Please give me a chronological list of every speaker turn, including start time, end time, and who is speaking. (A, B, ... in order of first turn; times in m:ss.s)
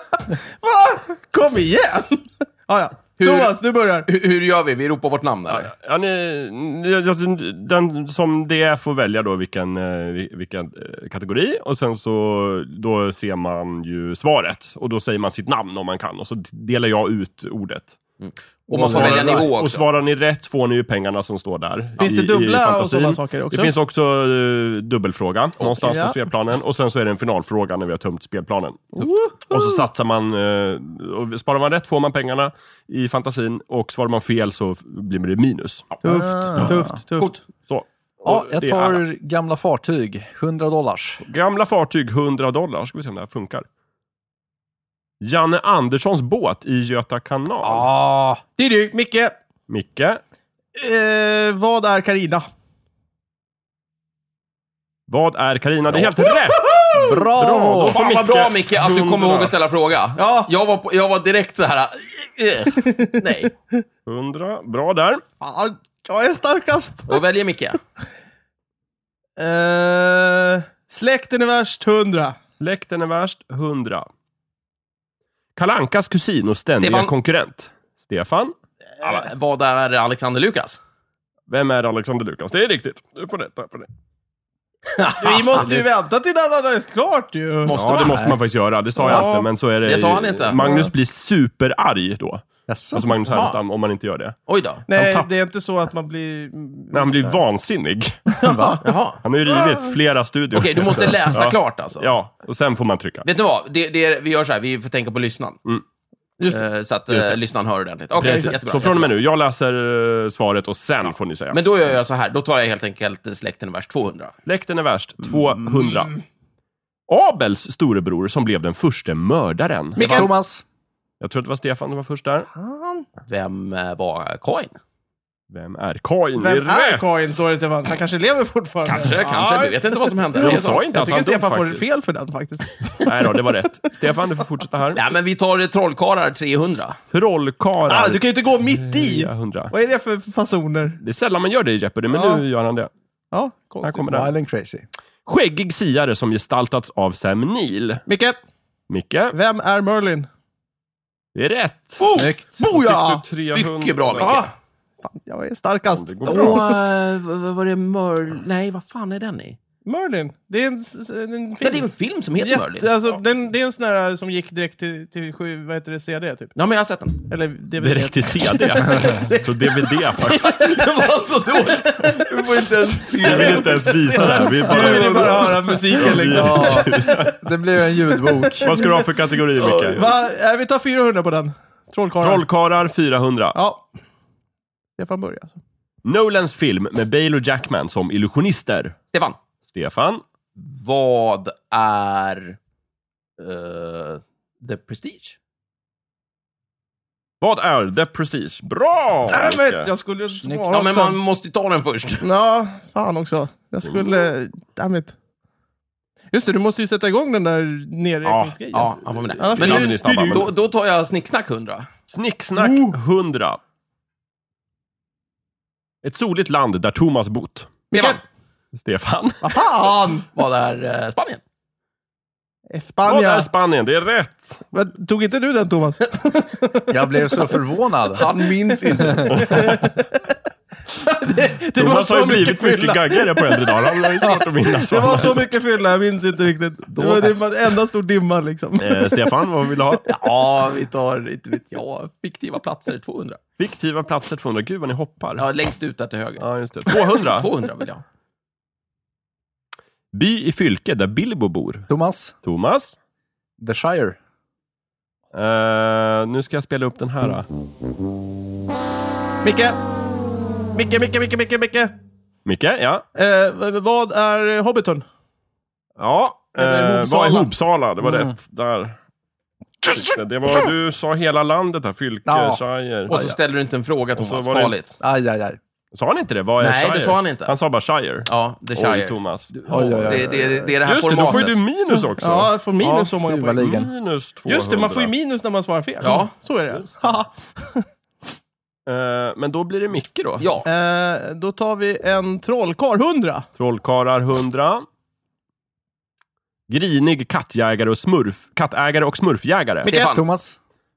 0:00.3-0:04.1 A
0:03.2-0:03.5 B
0:04.1-0:05.7 B
0:05.5-0:18.0 C
0:18.2-0:19.8 B
0:18.7-0:19.5 D
0:18.9-0:28.9 C
0:22.0-0:23.7 A
0:25.8-0:26.2 A
0:29.0-0:29.8 A
0:29.5-0:35.9 C
0:36.0-0:37.0 D
0:36.0-0:37.4 A
0:37.7-0:39.0 C
0:38.2-0:41.2 D
0:41.2-0:43.7 C
0:45.2-0:47.9 C
0:47.6-0:48.4 D
0:48.6-0:49.4 A
0:49.7-0:50.2 C
0:50.8-0:52.5 A
0:55.1-0:59.5 C
0:56.2-0:57.2 A
0:56.9-0:58.0 D
0:57.9-1:03.5 B
1:00.2-1:00.5 A
1:02.8-1:03.2 A
1:04.1-1:05.2 C
1:05.4-1:07.2 A
1:07.1-1:07.8 B
1:09.4-1:12.4 A
1:12.6-1:14.1 C
1:15.6-1:18.5 C
1:16.8-1:17.1 B
1:19.0-1:20.8 B
1:21.5-1:23.9 C
1:24.9-1:25.8 B
1:25.2-1:27.9 A
1:25.6-1:25.8 D
1:27.6-1:28.2 B
1:27.7-1:34.4 C
1:27.9-1:28.4 D
1:29.0-1:29.5 A
1:29.8-1:30.6 B
1:30.5-1:30.9 A
1:32.7-1:33.1 D
1:33.2-1:33.6 B
1:34.5-1:34.9 B
1:34.9-1:37.4 A
1:34.9-1:35.3 C
1:36.9-1:38.2 C
1:38.3-1:38.8 A
1:38.4-1:38.8 D
1:38.8-1:39.2 B
1:39.2-1:43.2 C
1:40.5-1:42.1 B
1:43.2-1:45.6 B
1:46.4-1:46.6 A
1:46.5-1:49.2 B
1:47.1-1:47.4 C
1:48.2-1:51.6 C
1:48.2-1:48.5 A
1:51.5-1:54.3 B
1:54.5-1:56.1 C
1:57.1-2:00.3 C
2:00.0-2:00.3 A
2:00.0-2:00.6 D
2:01.2-2:02.5 C
2:02.5-2:03.1 A
2:03.3-2:04.7 B
2:05.5-2:07.1 C
2:06.4-2:13.6 A
2:08.8-2:11.0 B
2:10.4-2:11.9 C
2:13.0-2:15.0 C
2:14.9-2:17.0 B
2:17.1-2:19.7 C
2:17.9-2:21.0 A
2:21.0-2:22.9 C
2:22.1-2:22.4 A
2:23.3-2:24.1 A
2:23.8-2:24.3 C
2:24.1-2:24.9 D
2:25.3-2:28.0 C
2:28.1-2:28.4 A
2:28.9-2:29.4 C
2:29.3-2:30.3 A
2:31.4-2:32.0 C
2:32.0-2:33.2 A
2:32.2-2:32.7 D
2:32.6-2:34.4 C
2:33.5-2:34.5 B
2:34.2-2:34.5 A
2:35.0-2:36.8 A
2:35.9-2:36.6 C
2:36.3-2:39.6 B
2:39.9-2:41.8 A
2:41.6-2:42.9 B
2:42.4-2:46.5 A
2:46.6-2:47.2 B
2:47.3-2:50.8 A
2:47.8-2:50.7 C
2:50.2-2:54.0 B
2:51.5-2:59.0 A
2:53.2-2:57.4 C
2:56.0-2:58.8 D
2:58.6-3:00.1 C
2:59.6-3:02.4 A
3:02.2-3:03.6 C
3:03.6-3:03.9 A
3:05.0-3:05.6 A
3:06.0-3:09.0 C
3:09.1-3:09.4 B
3:09.7-3:10.2 C
3:10.6-3:12.6 B
3:13.4-3:15.4 B
3:17.4-3:19.9 C
3:19.3-3:21.2 A
3:20.4-3:20.9 D
3:20.7-3:22.3 B
3:22.2-3:25.1 A
3:26.3-3:30.5 A
3:28.2-3:28.6 C
3:28.7-3:31.9 B
3:29.1-3:30.5 C
3:32.1-3:33.6 C
3:32.6-3:33.0 A
3:36.0-3:37.7 C
3:37.9-3:38.2 A
3:37.9-3:38.2 B
3:38.8-3:39.7 C
3:39.4-3:40.3 A
3:40.3-3:41.4 B
3:42.7-3:43.5 A
3:43.0-3:44.7 C
3:44.7-3:47.5 A
3:46.9-3:48.4 D
3:48.1-3:49.6 B
3:49.0-3:49.5 D
3:49.3-3:50.2 A
3:50.9-3:59.3 A
3:51.8-3:55.5 C
3:56.9-3:57.4 B
3:58.8-4:00.1 C
4:00.1-4:03.4 B
4:03.6-4:05.5 C
4:05.4-4:08.0 B
4:06.4-4:07.5 C
4:10.1-4:11.9 C
4:11.9-4:12.3 D
4:12.4-4:13.0 C
4:13.6-4:14.2 D
4:15.3-4:17.5 C
4:19.4-4:19.8 A
4:20.8-4:21.9 A
4:22.5-4:23.0 C
4:23.2-4:25.0 A
4:26.0-4:29.0 C
4:26.6-4:27.5 A
4:28.0-4:28.4 D
4:29.9-4:33.2 C
4:32.3-4:33.4 D
4:33.1-4:35.0 B
4:34.2-4:34.8 C
4:35.0-4:35.6 D
4:35.9-4:39.5 C
4:36.6-4:37.6 B
4:38.3-4:41.6 B
4:39.7-4:40.8 D
4:40.8-4:42.5 C
4:42.2-4:43.7 A
4:42.8-4:43.9 D
4:43.6-4:45.1 C
4:44.5-4:47.8 A
4:46.0-4:46.3 B
4:48.9-4:50.5 C
4:50.4-4:50.7 B
4:50.6-4:53.5 A
4:53.6-4:54.9 C
4:56.7-4:59.9 C
4:59.8-5:00.2 B
4:59.9-5:00.2 A
5:00.0-5:00.6 D